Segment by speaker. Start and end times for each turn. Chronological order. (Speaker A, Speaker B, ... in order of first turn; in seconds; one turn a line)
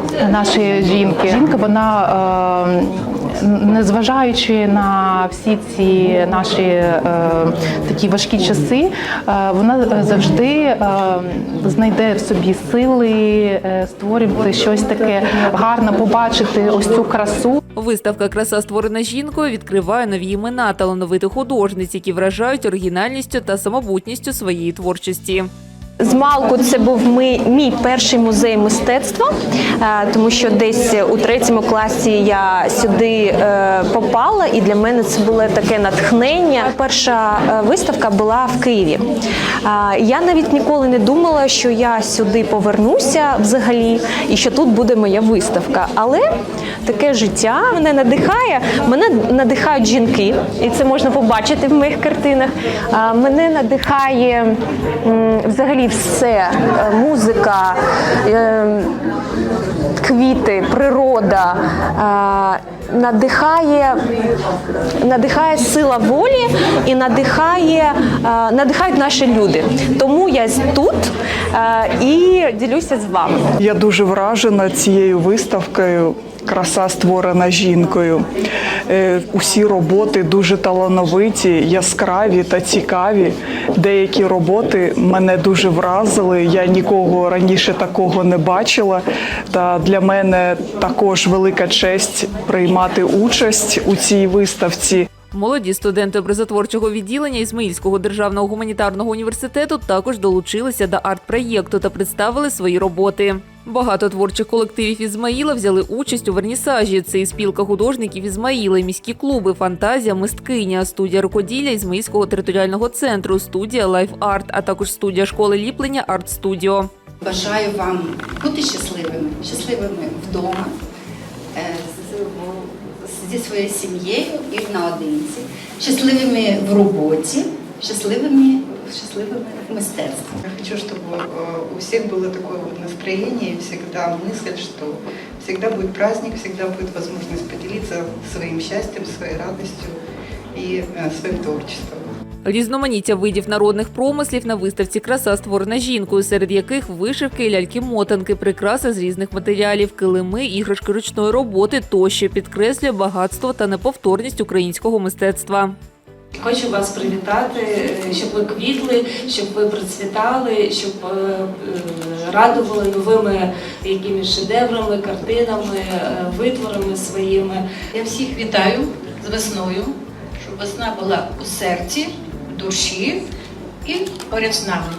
Speaker A: 0.2-17.6
Speaker B: 17.8-25.5
Speaker C: 26.0-39.0
Speaker C: 39.6-46.2
Speaker C: 46.9-54.5
Speaker C: 55.0-57.8
Speaker C: 58.2-58.9
Speaker C: 60.0-63.9
Speaker C: 65.0-73.4
Speaker D: 73.6-78.2
Speaker D: 78.9-89.0
Speaker D: 89.5-95.0
Speaker B: 95.3-116.9
Speaker E: 117.2-120.7
Speaker E: 121.5-130.4
Speaker F: 130.4-140.0
Speaker F: 140.5-142.0
Speaker B: 142.4-155.8
Speaker G: 156.4-167.6